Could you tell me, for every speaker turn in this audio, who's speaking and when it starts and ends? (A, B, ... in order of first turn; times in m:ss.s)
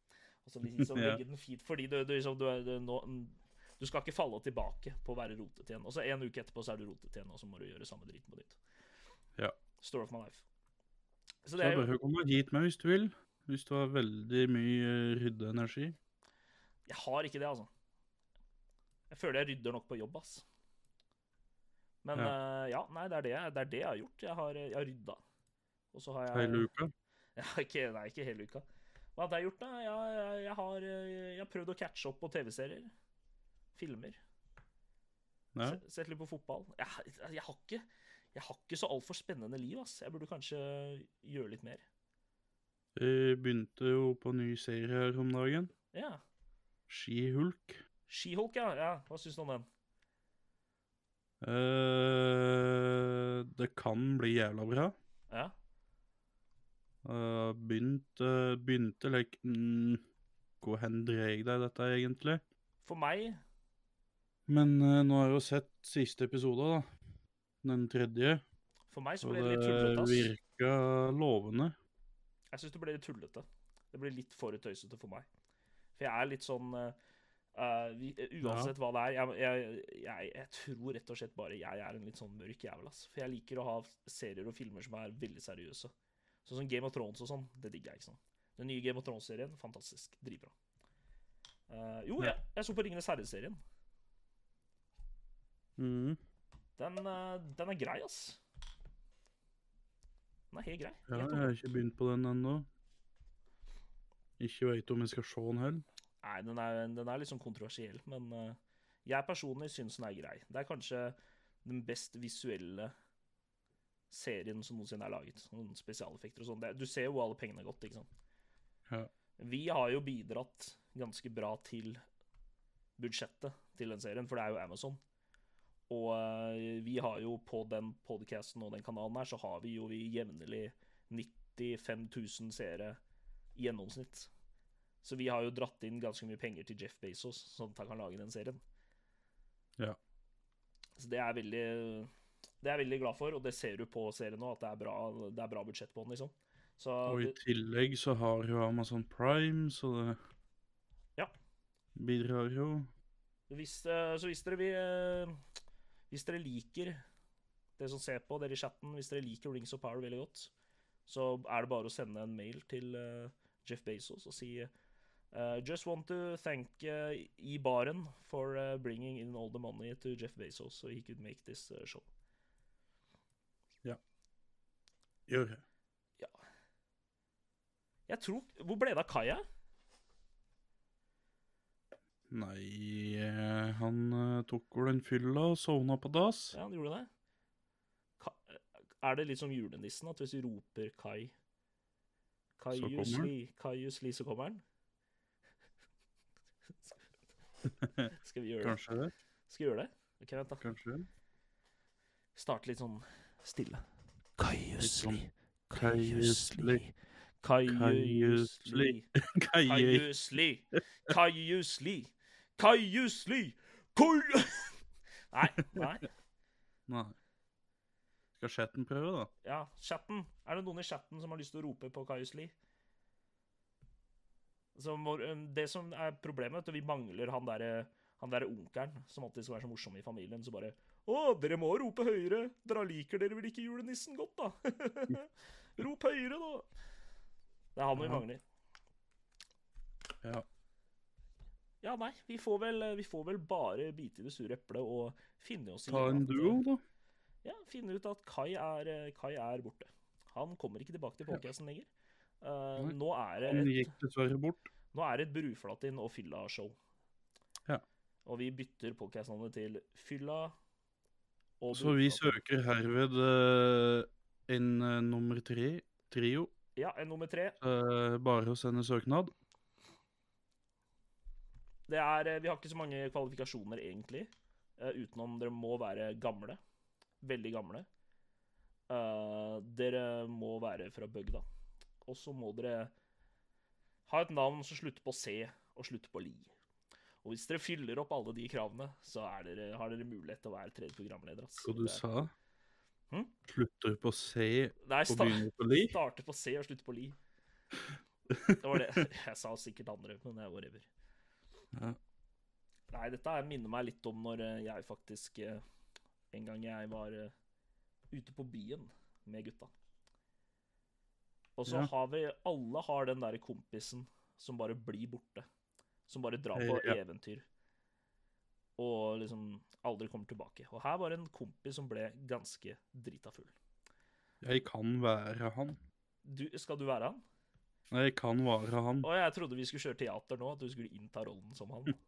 0:00.4-0:08.6 A
0:00.7-0:01.2 B
0:09.8-0:10.4 A
0:11.4-0:11.9 A
0:11.6-0:16.0 B
0:16.9-0:17.7 A
0:19.1-0:20.4 A
0:22.0-0:25.2 A
0:25.9-0:26.7 A
0:26.3-0:26.9 B
0:27.4-0:28.6 A
0:29.2-0:32.9 A
0:33.8-0:34.2 A
0:35.5-0:35.8 B
0:35.6-0:41.8 A
0:43.0-0:45.7 B
0:45.9-0:46.2 A
0:46.9-0:47.8 B
0:48.1-0:49.7 A
0:51.4-0:55.0 B
0:57.0-1:00.0 B
1:00.6-1:02.4 B
1:02.8-1:03.4 A
1:04.5-1:06.9 B
1:07.6-1:08.4 B
1:08.9-1:10.3 A
1:09.2-1:11.8 B
1:12.5-1:15.3 A
1:16.0-1:17.0 A
1:17.6-1:25.9 A
1:18.4-1:18.7 B
1:26.4-1:30.5 A
1:31.7-1:33.6 A
1:35.8-1:36.2 B
1:36.8-1:38.4 A
1:40.5-1:41.5 A
1:41.1-1:42.7 B
1:44.4-1:45.8 B
1:46.2-1:52.9 A
1:54.1-1:58.1 A
1:59.4-2:02.0 A
2:03.0-2:05.0 A
2:05.9-2:13.0 A
2:13.6-2:14.3 A
2:15.0-2:18.6 A
2:21.0-2:27.4 A
2:27.1-2:30.2 B
2:32.0-2:32.9 B
2:33.5-2:35.4 A
2:36.1-2:37.0 A
2:37.8-2:40.5 A
2:41.1-2:44.7 A
2:45.3-2:52.1 A
2:55.3-2:55.6 B
2:58.1-2:59.4 A
3:02.3-3:06.6 B
3:06.5-3:07.1 A
3:08.2-3:11.3 A
3:12.6-3:14.6 A
3:12.7-3:13.3 B
3:17.8-3:18.1 B
3:18.1-3:18.8 A
3:18.6-3:19.1 B
3:19.5-3:20.6 A
3:20.6-3:21.1 B
3:22.4-3:23.8 A
3:24.4-3:29.1 A
3:24.8-3:26.8 B
3:27.7-3:30.1 B
3:29.6-3:34.8 A
3:35.3-3:36.1 A
3:36.9-3:37.2 B
3:38.4-3:39.3 B
3:39.4-3:42.5 A
3:44.8-3:56.7 A
3:57.8-3:58.4 A
3:58.0-3:58.2 B
4:01.8-4:06.6 A
4:05.9-4:06.8 B
4:07.4-4:11.9 A
4:12.4-4:13.9 A
4:12.8-4:14.7 B
4:14.9-4:16.8 A
4:18.2-4:20.5 A
4:21.6-4:22.3 A
4:21.7-4:26.5 B
4:26.8-4:27.6 A
4:27.6-4:29.3 B
4:31.9-4:36.6 A
4:37.2-4:37.9 A
4:38.9-4:41.4 A
4:42.0-4:42.9 A
4:44.1-4:46.5 A
4:47.2-4:52.0 A
4:51.6-4:52.3 B
4:53.5-4:56.0 B
4:54.8-4:57.2 A
4:58.3-4:58.6 B
4:58.6-5:00.9 A
5:01.7-5:02.0 B
5:02.9-5:05.6 A
5:06.3-5:07.3 A
5:08.1-5:09.7 A
5:11.6-5:15.5 A
5:16.1-5:17.4 A
5:16.6-5:17.0 B
5:18.8-5:23.5 A
5:24.4-5:25.8 B
5:26.2-5:27.2 A
5:27.9-5:29.1 B
5:29.0-5:32.0 A